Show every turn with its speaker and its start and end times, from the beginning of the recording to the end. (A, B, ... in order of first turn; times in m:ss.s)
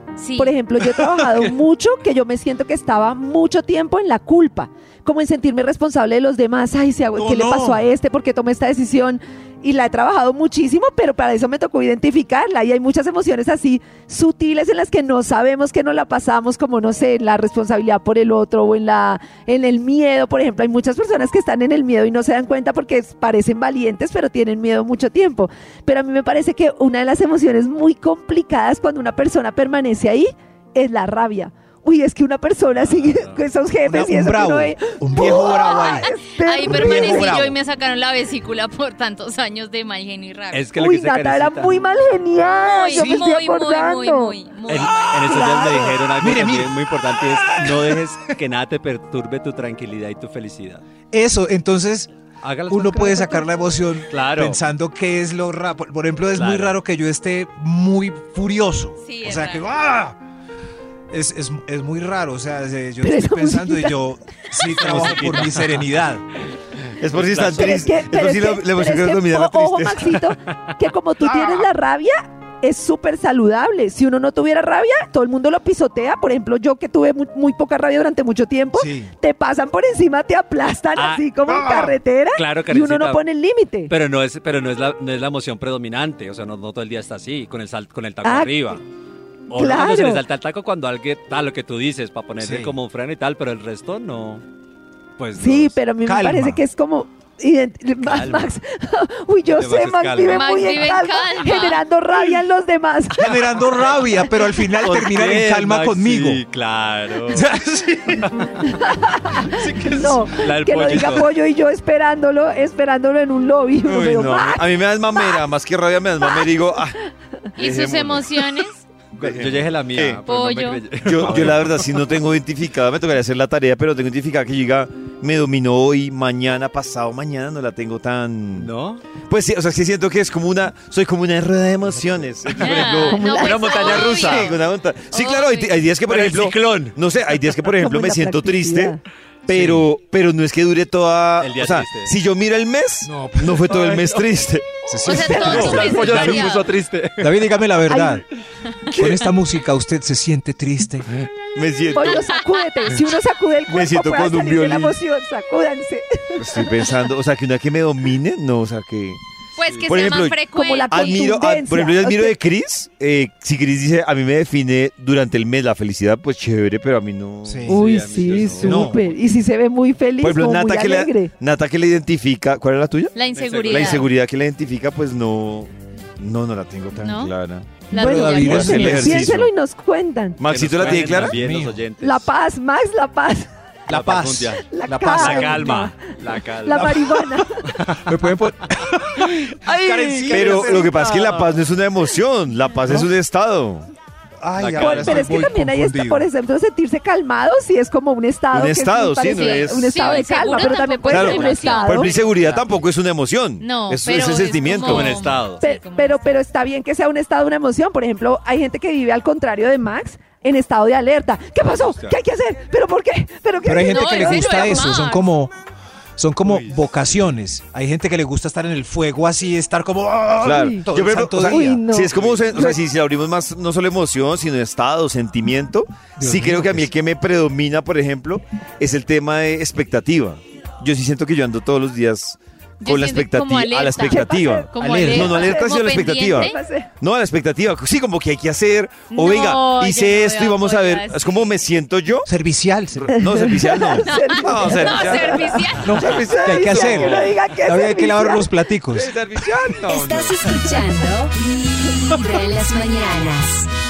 0:00.2-0:00.6 A
0:00.4-0:37.4 B
0:01.2-0:01.5 C
0:07.1-0:07.8 D
0:32.8-0:33.4 C
0:33.8-0:36.1 D
0:35.3-0:40.7 A
0:36.6-0:37.6 D
0:40.5-0:41.8 C
0:40.7-0:44.4 B
0:42.6-0:45.5 A
0:42.9-0:43.2 D
0:44.7-0:50.8 C
0:45.1-0:46.0 B
0:46.1-0:48.0 D
0:51.1-0:52.1 D
0:52.4-0:53.4 C
0:52.7-1:00.2 D
0:54.1-0:54.6 C
0:56.3-0:56.8 C
0:59.0-0:59.7 A
1:01.1-1:06.2 D
1:03.0-1:04.0 B
1:04.7-1:05.8 C
1:07.0-1:10.2 E
1:07.1-1:07.8 C
1:07.5-1:23.9 B
1:11.2-1:11.7 D
1:18.7-1:19.1 D
1:21.0-1:21.3 C
1:21.5-1:22.0 D
1:22.3-1:23.2 C
1:23.9-1:28.8 C
1:28.2-1:28.8 B
1:29.5-1:34.4 C
1:29.5-1:30.2 B
1:32.4-1:32.7 D
1:35.2-1:35.8 C
1:35.4-1:43.3 B
1:36.0-1:36.6 D
1:38.0-1:38.5 C
1:39.5-1:40.6 C
1:40.3-1:41.8 A
1:43.2-1:46.4 D
1:44.8-1:47.5 C
1:47.3-1:48.3 D
1:48.2-1:51.3 C
1:48.6-1:54.6 B
1:53.8-1:57.0 E
1:57.5-1:58.6 E
1:57.6-1:58.8 A
1:59.2-2:00.2 E
1:59.2-2:02.0 C
2:00.3-2:00.8 A
2:01.0-2:08.7 E
2:08.6-2:09.0 C
2:09.3-2:19.0 E
2:12.6-2:14.6 A
2:12.6-2:14.5 C
2:13.1-2:13.7 B
2:15.1-2:15.8 A
2:16.0-2:16.9 C
2:17.8-2:19.0 B
2:19.5-2:25.8 E
2:19.5-2:19.8 D
2:21.4-2:22.1 C
2:23.0-2:23.9 D
2:23.6-2:24.2 C
2:24.9-2:26.6 D
2:25.0-2:26.7 A
2:25.1-2:26.4 B
2:25.4-2:27.5 C
2:27.2-2:28.2 D
2:27.9-2:28.2 B
2:28.9-2:31.1 D
2:28.9-2:29.3 E
2:31.1-2:32.3 E
2:31.9-2:36.9 B
2:32.0-2:33.0 A
2:33.7-2:35.0 E
2:36.4-2:39.2 E
2:39.6-2:41.3 A
2:39.7-2:40.1 C
2:39.8-2:47.8 E
2:40.5-2:42.4 B
2:47.4-2:47.8 D
2:47.7-2:49.0 C
2:47.7-2:51.3 B
2:48.6-2:49.0 E
2:50.2-2:53.1 E
2:53.1-2:54.1 A
2:53.3-2:54.1 C
2:53.7-2:59.5 E
2:57.0-2:57.3 A
2:57.9-2:59.0 A
2:57.9-2:59.4 D
2:57.9-3:00.4 B
3:00.4-3:01.4 E
3:00.4-3:02.3 C
3:00.8-3:01.8 D
3:02.0-3:03.5 B
3:03.9-3:07.0 C
3:03.9-3:05.8 D
3:04.7-3:06.0 B
3:06.6-3:07.6 B
3:07.7-3:08.1 C
3:07.8-3:11.2 D
3:09.3-3:11.5 C
3:10.2-3:13.9 E
3:14.4-3:16.3 D
3:14.6-3:15.5 C
3:14.8-3:22.1 B
3:18.5-3:20.3 E
3:19.3-3:22.2 A
3:21.1-3:25.2 E
3:21.5-3:22.6 C
3:23.6-3:26.3 A
3:24.7-3:25.6 C
3:25.6-3:35.0 B
3:31.8-3:32.2 C
3:33.6-3:35.5 D
3:33.9-3:35.3 A
3:36.2-3:41.8 D
3:36.4-3:36.8 C
3:40.4-4:02.3 E
3:40.5-3:40.8 B
3:41.4-3:42.7 B
3:42.1-3:42.6 C
3:42.5-3:42.8 D
3:46.2-3:46.9 D
3:52.8-3:56.6 A
3:54.0-3:56.9 B
3:54.8-3:55.3 D
3:59.1-4:01.5 A
4:02.2-4:03.2 D
4:03.0-4:07.4 E
4:03.1-4:08.5 B
4:04.1-4:06.1 A
4:05.8-4:09.1 D
4:08.9-4:10.5 E
4:09.8-4:13.7 F